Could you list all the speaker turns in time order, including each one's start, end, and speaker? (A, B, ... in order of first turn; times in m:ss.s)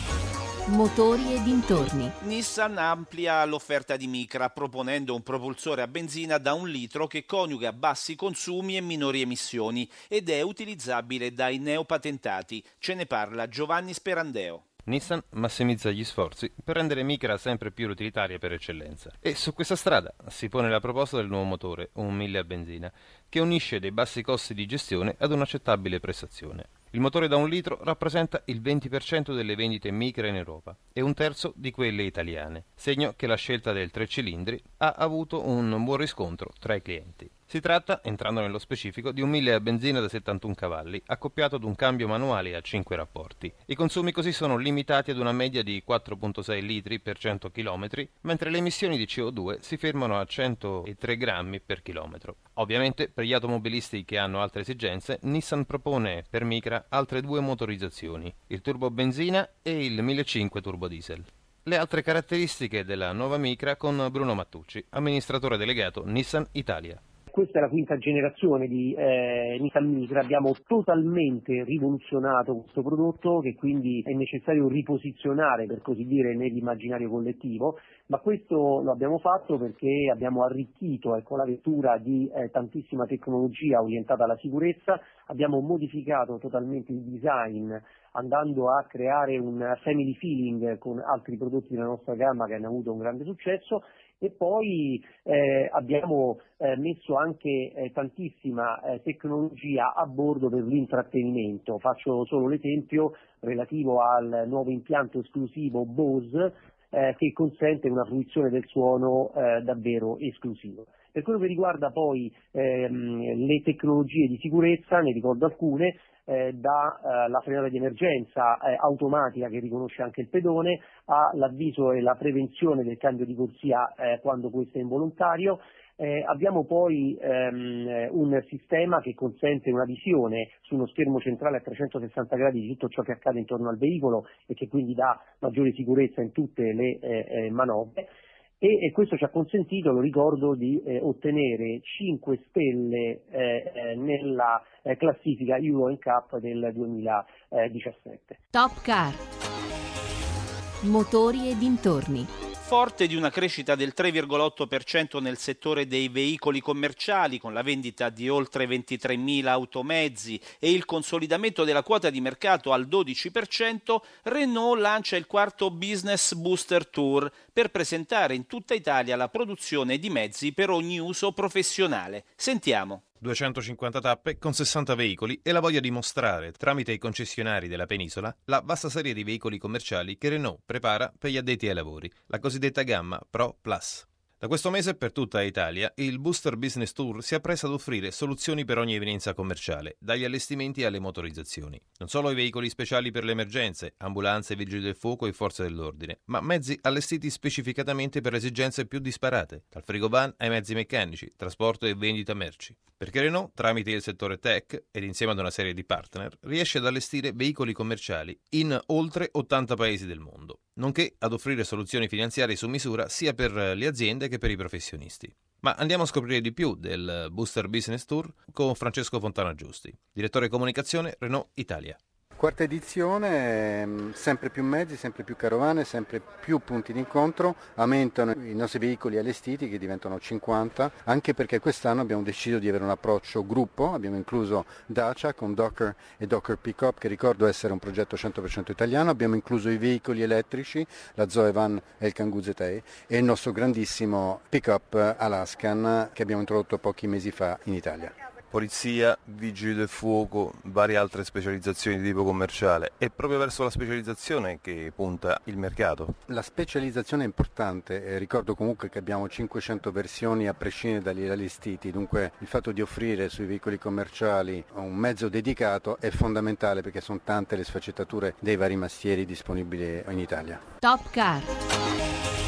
0:00.7-0:02.1 A
0:02.2-0:14.6 B
0:14.8-1:07.0 C
1:07.3-2:18.1 D
2:18.6-2:28.4 D
2:28.5-2:29.2 A
2:30.8-2:32.3 A
2:32.6-2:53.0 B
2:53.2-3:42.0 C
3:42.4-4:08.1 E
4:08.5-4:16.1 F
4:16.3-4:30.6 E
4:30.8-4:31.5 A